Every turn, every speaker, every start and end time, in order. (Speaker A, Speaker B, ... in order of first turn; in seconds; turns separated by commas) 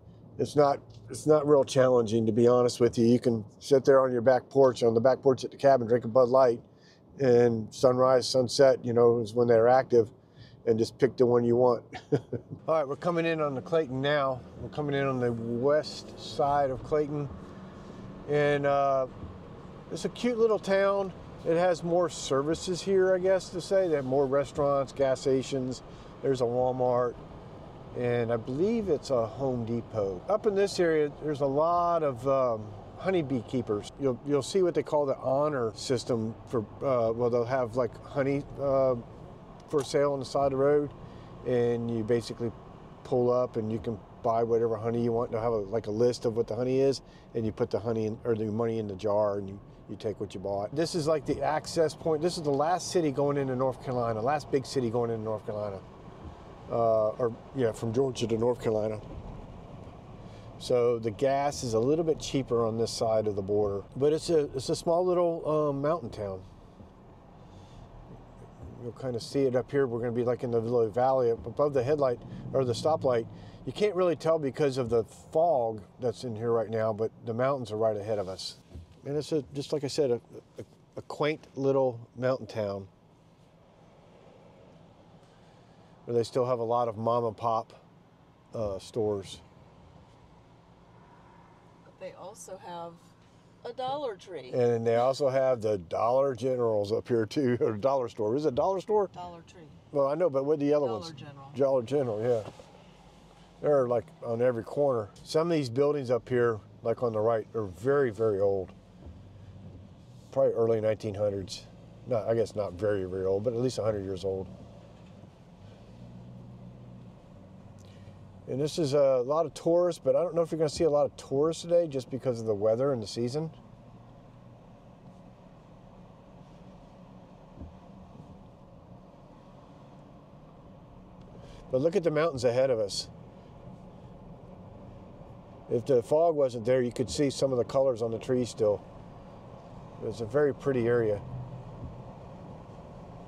Speaker A: 0.4-6.6, Speaker A: 7.2-10.1, Speaker A: 10.7-17.3, Speaker A: 18.3-19.1, Speaker A: 19.9-27.2, Speaker A: 27.9-39.0, Speaker A: 39.7-55.8, Speaker A: 56.7-59.0, Speaker A: 60.6-66.5, Speaker A: 68.6-82.9, Speaker A: 86.1-87.8, Speaker A: 88.5-89.4, Speaker B: 91.8-93.1, Speaker B: 93.6-94.6, Speaker A: 94.5-99.1, Speaker B: 99.1-99.8, Speaker A: 99.9-102.5, Speaker B: 100.8-101.6, Speaker A: 103.6-108.8, Speaker A: 110.3-114.5, Speaker A: 118.5-123.5, Speaker A: 131.7-133.1, Speaker A: 135.7-138.8, Speaker A: 140.0-141.2